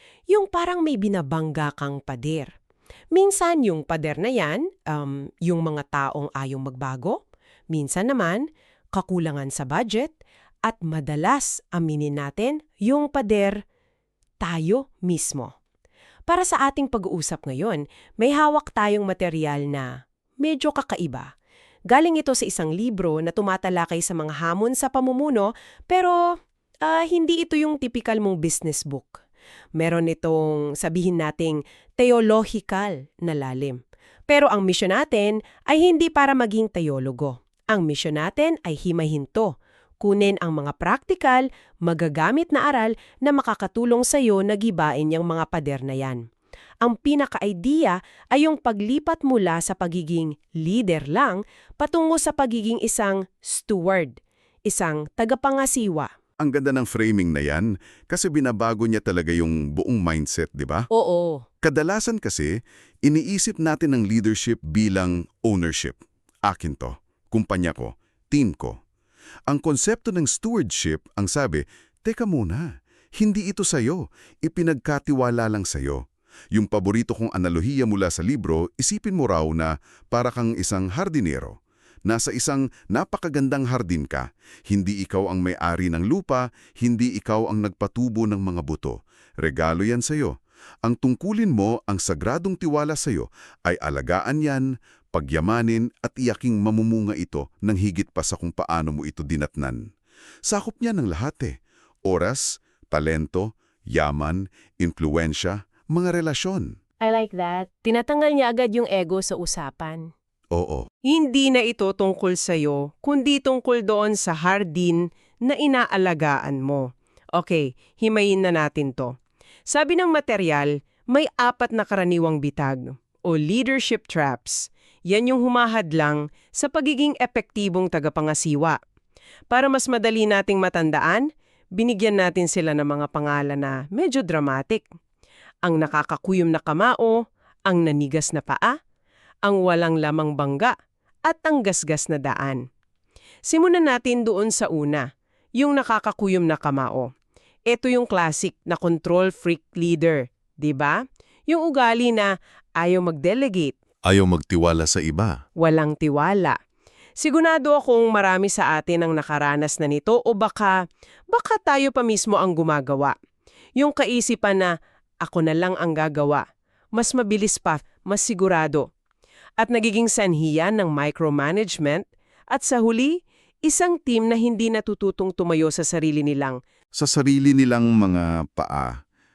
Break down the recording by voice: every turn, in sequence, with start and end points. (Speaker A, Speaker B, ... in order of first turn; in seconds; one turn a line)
Speaker A: 0.3-2.5
Speaker A: 3.1-13.6
Speaker A: 14.4-15.5
Speaker A: 16.3-21.3
Speaker A: 21.9-26.2
Speaker A: 26.8-29.2
Speaker A: 29.8-46.2
Speaker A: 46.8-56.1
Speaker B: 56.4-60.9
Speaker A: 60.9-61.5
Speaker B: 61.6-68.8
Speaker B: 69.5-99.8
Speaker B: 100.5-106.7
Speaker A: 107.0-110.1
Speaker B: 110.5-110.9
Speaker A: 111.1-119.1
Speaker A: 119.7-128.8
Speaker A: 129.5-134.8
Speaker A: 135.6-138.7
Speaker A: 139.4-140.7
Speaker A: 141.2-142.6
Speaker A: 143.5-145.1
Speaker A: 145.6-147.1
Speaker A: 147.7-151.0
Speaker A: 151.5-153.7
Speaker B: 154.1-155.3
Speaker A: 155.6-156.6
Speaker A: 157.2-160.8
Speaker A: 161.3-163.1
Speaker A: 163.8-164.7
Speaker A: 165.2-166.4
Speaker A: 166.9-168.9
Speaker A: 169.6-176.6
Speaker B: 176.9-179.0